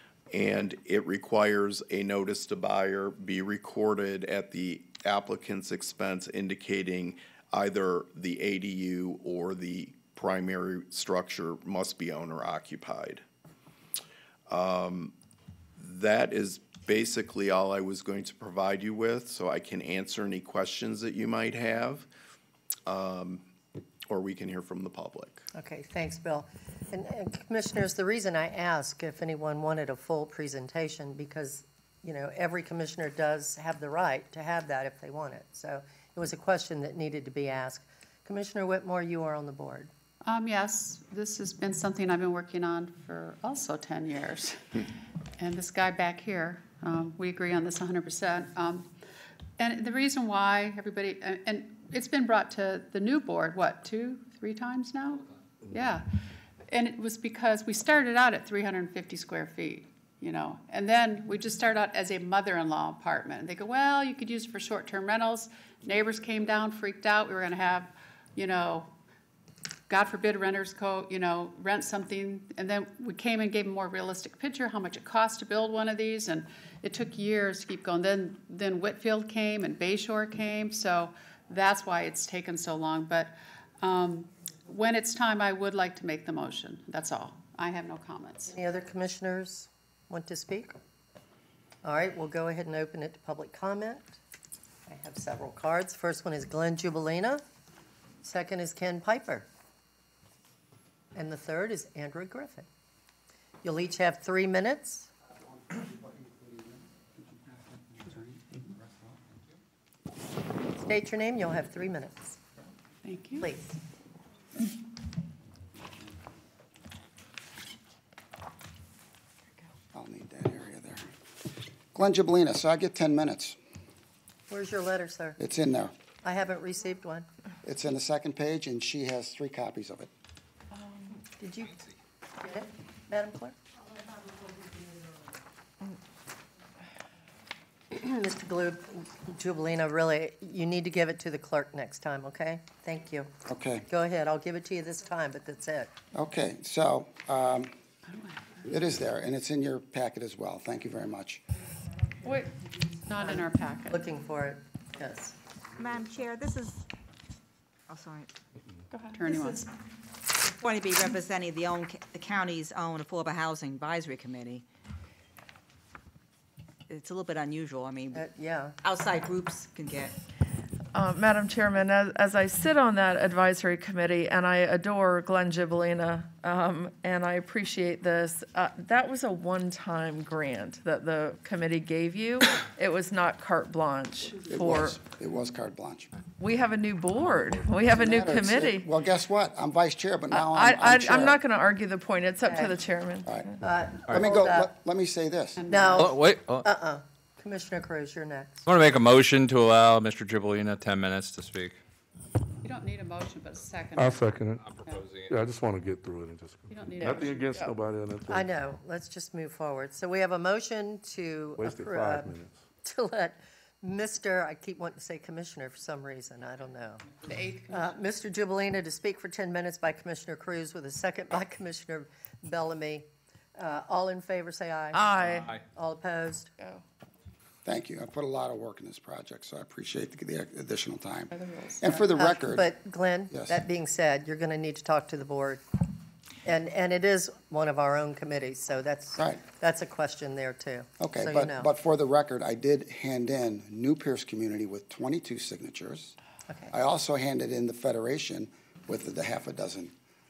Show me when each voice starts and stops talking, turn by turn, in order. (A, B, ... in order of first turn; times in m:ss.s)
0:00.3-0:13.2 A
0:14.5-0:15.1 A
0:15.8-0:22.1 A
0:22.9-0:23.5 A
0:24.1-0:25.5 A
0:25.6-0:39.9 B
0:40.2-0:44.8 C
0:45.4-0:48.9 C
0:49.6-0:56.1 C
0:56.7-1:08.9 C
1:09.9-1:28.6 C
1:28.5-1:30.8 B
1:31.8-1:34.2 B
1:34.9-1:37.4 B
1:38.2-1:39.5 B
1:41.2-1:42.7 B
1:43.6-1:45.1 B
1:45.7-1:46.6 D
1:47.9-1:49.0 D
1:50.7-1:52.4 B
1:53.0-1:53.5 C
1:53.4-1:53.8 B
1:59.9-2:01.1 D
2:01.9-2:03.6 D
2:04.5-2:05.4 B
2:05.4-2:06.0 D
2:06.2-2:07.3 B
2:07.6-2:10.1 D
2:11.3-2:11.8 B
2:12.4-2:13.6 B
2:17.9-2:23.3 B
2:23.5-2:23.9 D
2:23.9-2:25.9 B
2:26.1-2:27.8 D
2:28.1-2:28.7 C
2:28.7-2:31.4 D
2:32.2-2:34.1 C
2:33.2-2:35.4 B
2:35.8-2:36.8 E
2:37.9-2:38.3 E
2:39.1-2:39.7 C
2:40.5-2:44.6 E
2:46.9-2:48.3 E
2:48.1-2:48.8 B
2:48.8-2:50.1 E
2:50.9-3:05.0 F
3:04.5-3:06.1 D
3:06.4-3:08.9 F
3:07.8-3:11.4 D
3:10.3-3:13.6 F
3:12.5-3:12.8 B
3:13.6-3:14.7 B
3:14.1-3:15.6 D
3:15.6-3:16.2 C
3:15.7-3:18.6 B
3:16.0-3:16.7 G
3:18.7-3:21.8 G
3:22.6-3:25.1 C
3:24.0-3:28.5 H
3:24.6-3:25.4 G
3:26.7-3:27.7 C
3:27.1-3:27.7 F
3:28.3-3:37.1 B
3:31.6-3:32.6 H
3:37.2-3:37.9 C
3:37.7-3:46.5 B
3:44.9-3:45.5 F
3:45.2-3:45.6 G
3:47.6-3:52.7 D
3:51.3-3:51.9 C
3:51.9-3:55.6 B
3:53.3-3:53.6 D
3:56.4-4:01.7 B
3:59.2-3:59.4 D
4:01.0-4:06.2 D
4:06.7-4:09.9 D